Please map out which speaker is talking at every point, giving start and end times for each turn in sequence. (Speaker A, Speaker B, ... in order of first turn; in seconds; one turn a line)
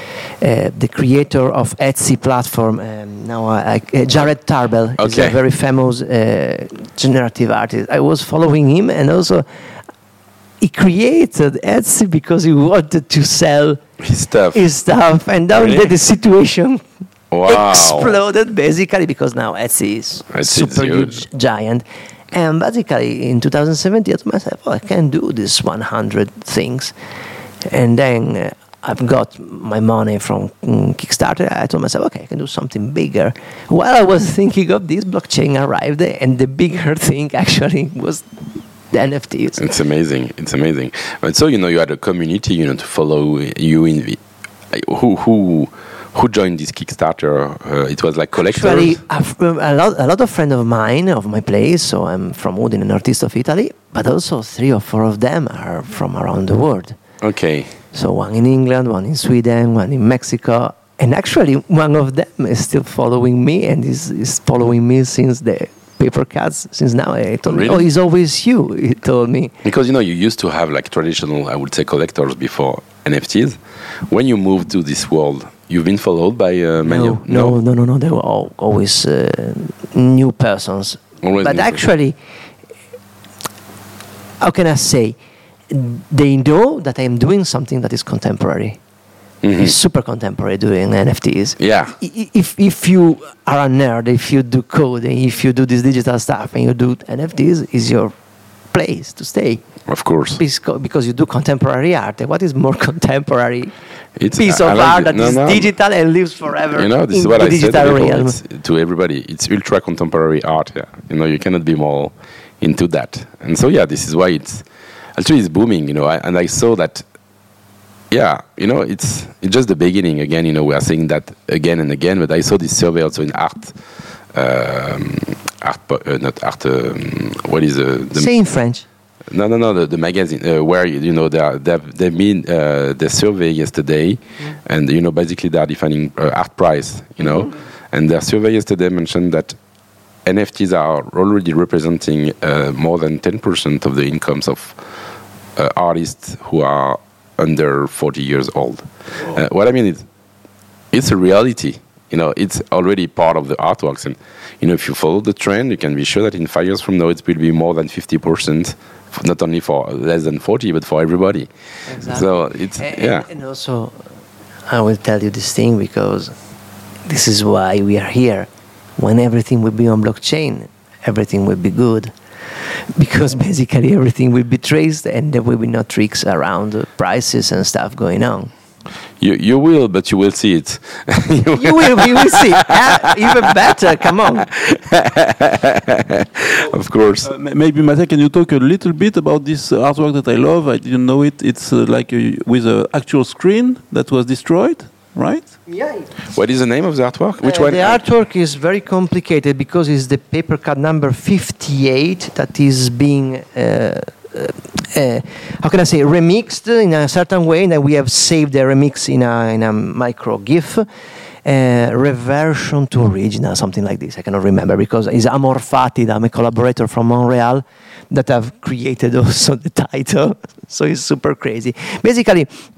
Speaker A: 0.4-9.4
Speaker B: 5.0-5.4
Speaker A: 10.6-13.8
Speaker B: 14.0-14.6
Speaker A: 14.5-16.8
Speaker B: 15.5-15.9
Speaker B: 17.3-18.1
Speaker A: 17.4-26.9
Speaker B: 20.3-21.2
Speaker A: 27.6-38.3
Speaker A: 38.9-39.6
Speaker B: 39.6-49.0
Speaker A: 48.4-57.0
Speaker B: 57.2-57.7
Speaker A: 57.9-69.5
Speaker B: 67.5-67.9
Speaker B: 69.6-77.5
Speaker A: 76.8-82.2
Speaker B: 81.2-81.8
Speaker A: 84.4-85.2
Speaker A: 85.7-88.8
Speaker B: 89.4-89.7
Speaker A: 89.6-98.1
Speaker B: 91.6-92.0
Speaker A: 98.7-99.6
Speaker B: 99.9-100.4
Speaker A: 100.4-103.7
Speaker B: 104.2-105.7
Speaker A: 104.4-108.4
Speaker B: 106.7-117.0
Speaker B: 118.1-123.8
Speaker B: 124.3-128.3
Speaker A: 128.2-128.8
Speaker B: 129.3-139.6
Speaker B: 140.2-144.8
Speaker B: 145.6-150.0
Speaker B: 150.9-163.3
Speaker A: 161.9-164.0
Speaker A: 164.7-166.3
Speaker A: 167.1-172.1
Speaker A: 172.9-178.5
Speaker B: 179.2-183.3
Speaker A: 181.6-184.5
Speaker B: 184.5-187.3
Speaker C: 187.2-195.5
Speaker A: 195.7-196.1
Speaker B: 196.3-198.0
Speaker A: 197.4-210.9
Speaker A: 211.4-222.5